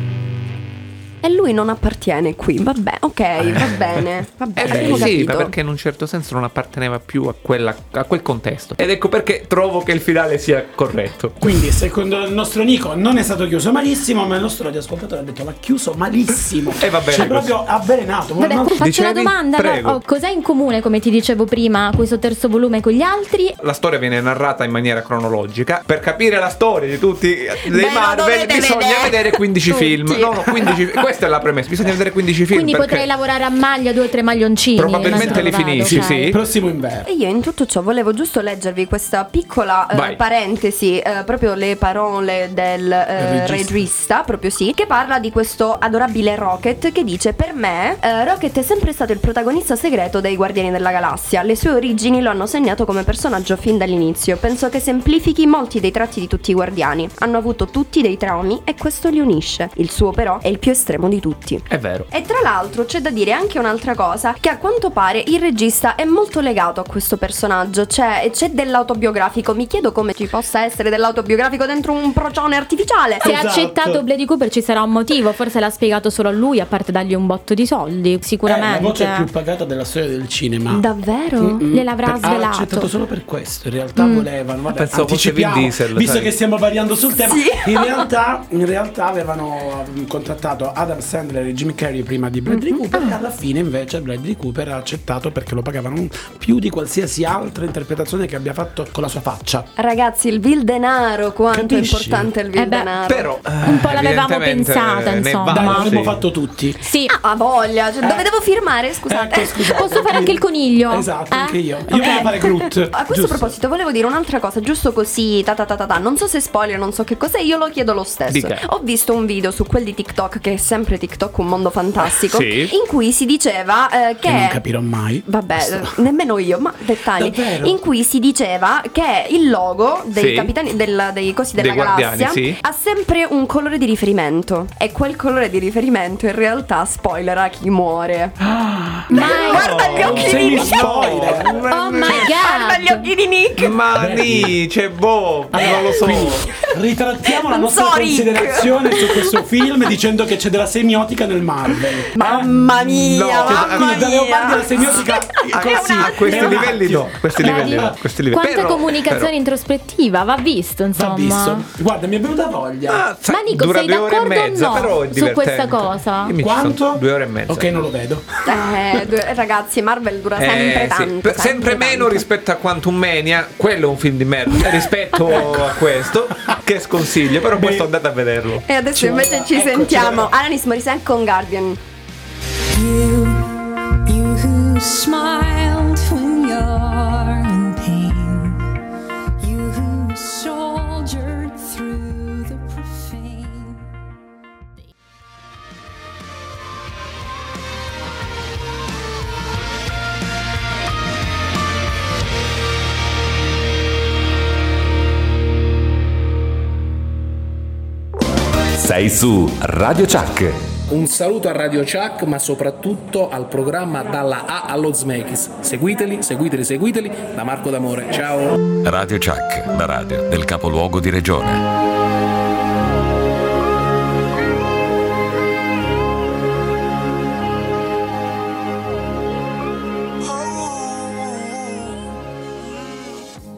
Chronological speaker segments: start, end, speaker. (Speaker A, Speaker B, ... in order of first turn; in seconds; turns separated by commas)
Speaker A: 1.2-5.5, Speaker B: 3.4-4.0, Speaker C: 4.6-11.4, Speaker B: 4.6-5.2, Speaker B: 11.4-18.8, Speaker C: 16.8-17.5, Speaker D: 18.4-23.5, Speaker C: 18.8-20.0, Speaker C: 23.6-33.1, Speaker A: 27.6-30.7, Speaker D: 32.5-36.3, Speaker C: 34.8-36.4, Speaker B: 35.0-37.1, Speaker A: 37.0-73.3, Speaker C: 39.9-40.2, Speaker B: 43.2-43.9, Speaker C: 61.7-62.1, Speaker B: 73.2-74.0, Speaker D: 73.2-79.3, Speaker B: 78.5-80.8, Speaker A: 80.7-81.7, Speaker B: 81.4-99.7, Speaker D: 81.7-82.9, Speaker D: 84.0-84.2, Speaker C: 84.7-86.3, Speaker A: 87.2-88.0, Speaker A: 99.8-103.3, Speaker B: 101.5-102.3, Speaker D: 102.5-102.9, Speaker C: 103.0-106.2, Speaker B: 103.6-103.9, Speaker D: 103.6-105.9, Speaker B: 105.5-106.8, Speaker D: 106.8-107.2, Speaker A: 107.1-109.9, Speaker B: 108.0-108.3, Speaker B: 109.0-113.5, Speaker D: 109.7-112.6, Speaker A: 112.0-112.3, Speaker A: 112.9-124.6, Speaker C: 118.3-118.6, Speaker C: 122.1-122.7, Speaker B: 124.2-126.0, Speaker A: 125.2-138.3, Speaker B: 127.1-127.8, Speaker C: 130.1-130.5, Speaker C: 131.6-132.6, Speaker B: 138.4-141.6, Speaker A: 139.1-143.8, Speaker D: 139.1-139.8, Speaker C: 139.5-142.3, Speaker D: 141.7-143.1, Speaker C: 143.6-146.4, Speaker B: 143.9-144.6, Speaker B: 145.5-152.5, Speaker A: 145.6-146.3, Speaker A: 147.3-149.4, Speaker A: 151.7-156.6, Speaker C: 152.4-154.1, Speaker B: 153.4-158.0, Speaker C: 154.8-159.3, Speaker D: 157.4-161.7, Speaker B: 160.9-163.0, Speaker C: 162.9-167.7, Speaker D: 163.3-166.3, Speaker B: 166.4-168.7, Speaker A: 168.4-172.2, Speaker C: 170.4-178.7, Speaker B: 175.3-175.8, Speaker B: 177.5-177.9, Speaker A: 178.7-181.8, Speaker B: 178.9-180.3, Speaker E: 182.7-188.7, Speaker E: 189.4-193.9, Speaker F: 208.8-210.7, Speaker G: 210.9-218.5, Speaker F: 218.8-221.6